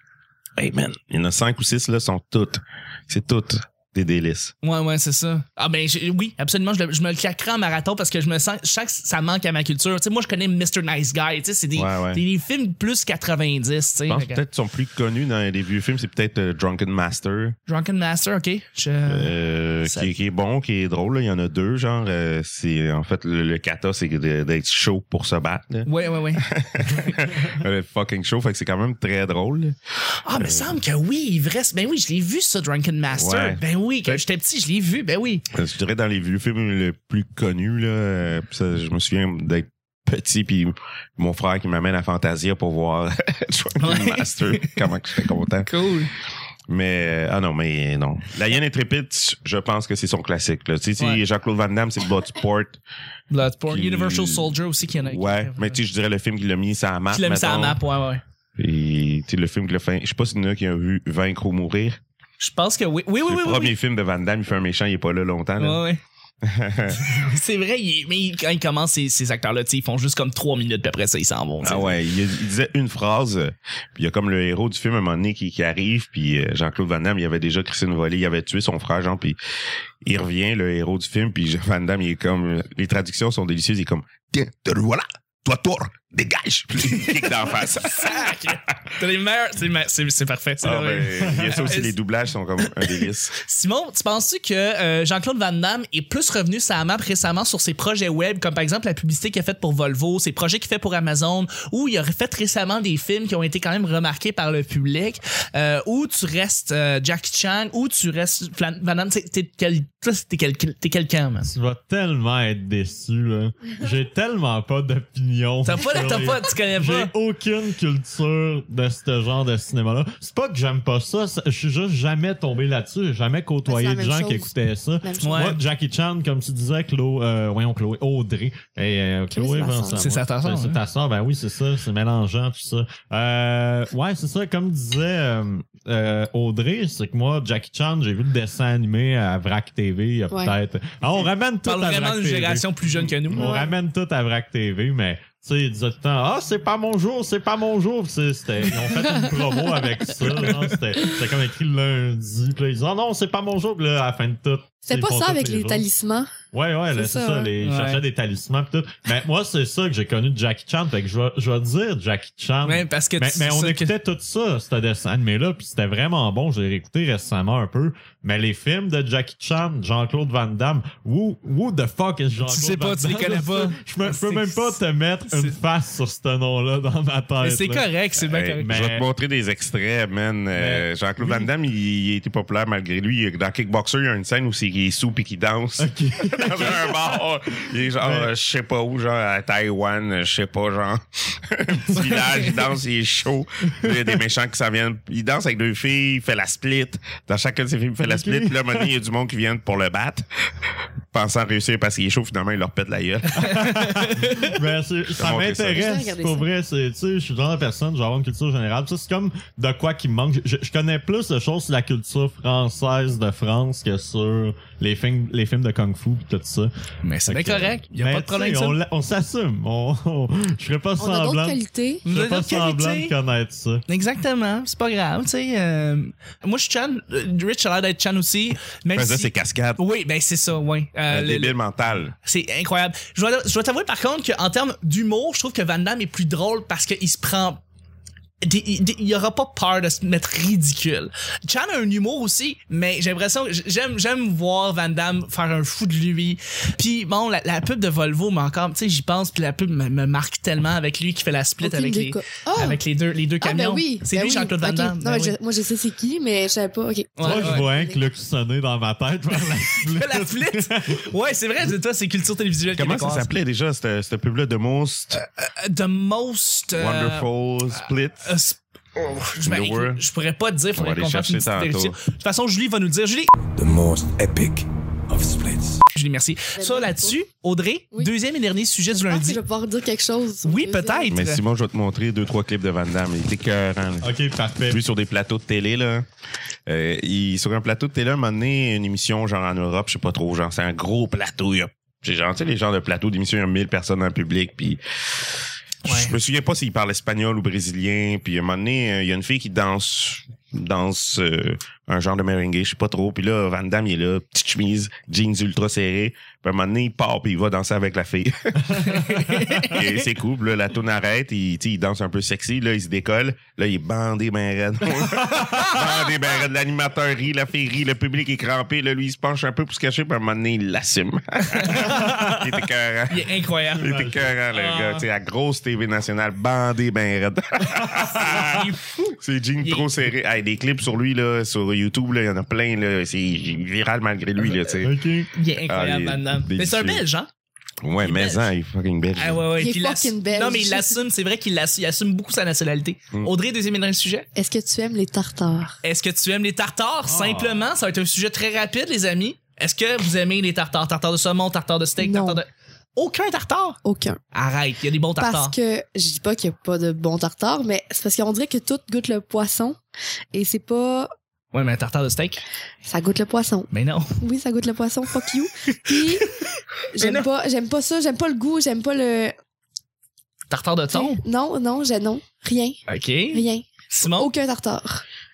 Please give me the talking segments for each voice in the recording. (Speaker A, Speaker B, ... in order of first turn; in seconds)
Speaker A: 0.6-4.5, 11.7-12.2, 14.1-17.6, 19.1-29.8, 30.4-30.7, 33.1-34.2, 35.5-45.7, 46.7-52.8, 53.7-57.8, 58.6-62.0, 63.2-65.8, 66.4-67.0, 71.6-79.4, 80.0-88.3, 90.6-93.3, 178.2-200.2, 201.1-203.6, 205.1-205.8, 228.9-229.8, 231.1-232.1, 262.8-265.2, 266.7-268.3, 269.4-270.0, 270.8-271.9, 281.1-284.1, 284.7-286.1, 286.7-294.8, 295.8-334.9, 335.7-337.0, 337.8-339.4
Speaker B: 4.6-14.4, 17.7-19.3, 19.9-20.1, 25.9-27.1, 30.2-35.4, 43.8-44.8, 45.6-46.1, 53.3-55.8, 57.1-58.2, 62.4-63.7, 65.6-66.0, 66.9-72.0, 86.8-91.9, 92.8-111.5, 115.6-117.1, 125.2-125.6, 129.9-130.8, 141.6-143.5, 157.6-158.0, 162.6-163.9, 172.4-175.5, 177.4-178.7, 203.4-204.5, 217.0-218.8, 222.0-223.1, 223.9-231.6, 232.2-237.6, 238.4-255.3, 257.2-257.7, 259.8-263.3, 265.1-267.2, 267.8-273.3, 275.9-279.4, 280.4-281.4, 295.8-296.1, 308.8-309.8, 315.3-315.8, 321.5-321.9, 323.1-325.0, 327.9-329.9, 334.4-334.8, 335.3-337.3, 338.0-338.5, 339.1-344.3, 345.8-353.8, 354.3-355.5, 361.5-362.4, 363.7-364.2, 365.7-367.3, 370.5-371.2, 372.9-374.3
Speaker C: 91.2-91.6, 111.4-142.7, 143.2-155.8, 156.5-177.9, 178.6-179.0, 180.5-181.5, 185.8-187.2, 188.0-188.3, 198.0-198.9, 203.3-216.7, 217.3-223.8, 257.2-261.1, 284.0-284.8, 308.8-309.6, 315.1-315.8, 321.7-322.6, 323.8-324.3, 334.8-335.3, 347.0-347.7
Speaker D: 123.7-124.5, 125.0-125.5, 129.3-130.0, 143.3-143.7, 148.9-151.1, 154.8-156.3, 156.9-157.5, 205.7-206.5, 221.0-222.0, 251.6-252.8, 253.4-258.0, 276.6-277.1, 279.0-281.1, 339.6-341.0, 344.4-345.8, 352.0-352.4, 353.8-354.2, 355.2-359.8, 360.3-361.1, 362.8-366.3, 366.9-369.3, 370.9-372.8, 373.3-375.0
Speaker E: 273.5-275.8